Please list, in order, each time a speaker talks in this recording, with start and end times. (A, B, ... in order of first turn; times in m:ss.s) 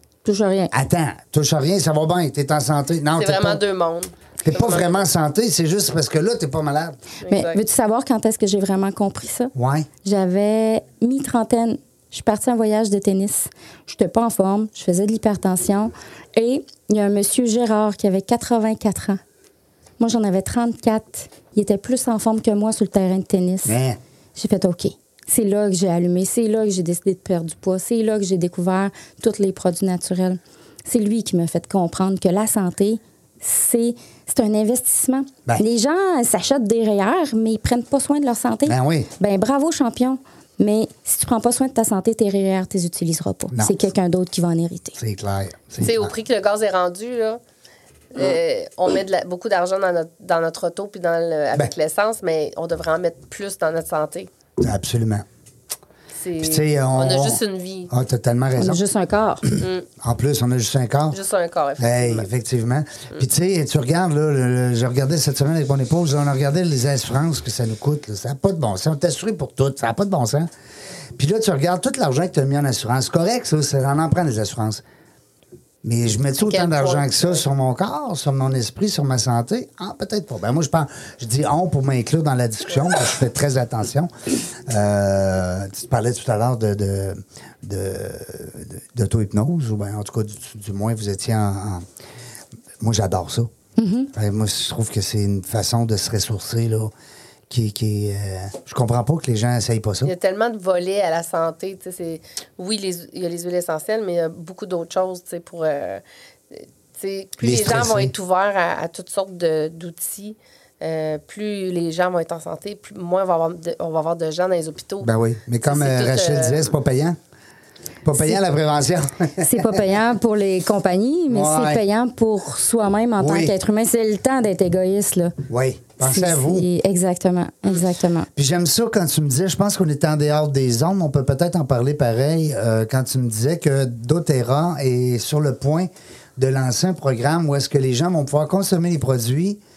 0:00.2-0:00.7 A
0:00.7-0:03.6 B
0:03.1-0:05.0 C
0:04.4-0:07.0 B
0:07.2-0:07.6 C
0:07.3-0:09.5 A
0:09.5-0:09.9 B
0:10.0-0:19.2 A
0:20.0-0:23.8 A
0:23.6-0:24.0 B
0:24.4-0:45.0 A
0:38.7-0:39.1 B
0:43.5-0:43.8 B
0:45.0-0:46.1 B
0:45.8-0:47.4 C
0:48.1-0:54.3 C
0:54.6-0:55.2 B
0:56.2-0:57.9 C
0:56.4-0:58.8 B
0:58.6-0:59.4 A
0:59.6-0:59.8 C
0:59.6-1:01.2 B
1:01.1-1:02.2 C
1:01.8-1:10.5 B
1:11.2-1:14.8 B
1:15.8-1:24.1 B
1:16.4-1:17.4 C
1:24.6-1:31.8 B
1:32.8-1:33.5 B
1:33.8-1:34.1 A
1:34.1-1:36.9 B
1:37.5-1:40.1 B
1:40.0-1:55.1 C
1:47.4-1:48.1 B
1:55.0-1:57.2 B
1:55.6-1:56.7 C
1:58.0-1:59.8 B
1:59.4-2:05.4 A
2:01.3-2:01.8 B
2:03.2-2:03.5 B
2:05.5-2:06.7 B
2:06.0-2:08.3 A
2:08.4-2:19.6 B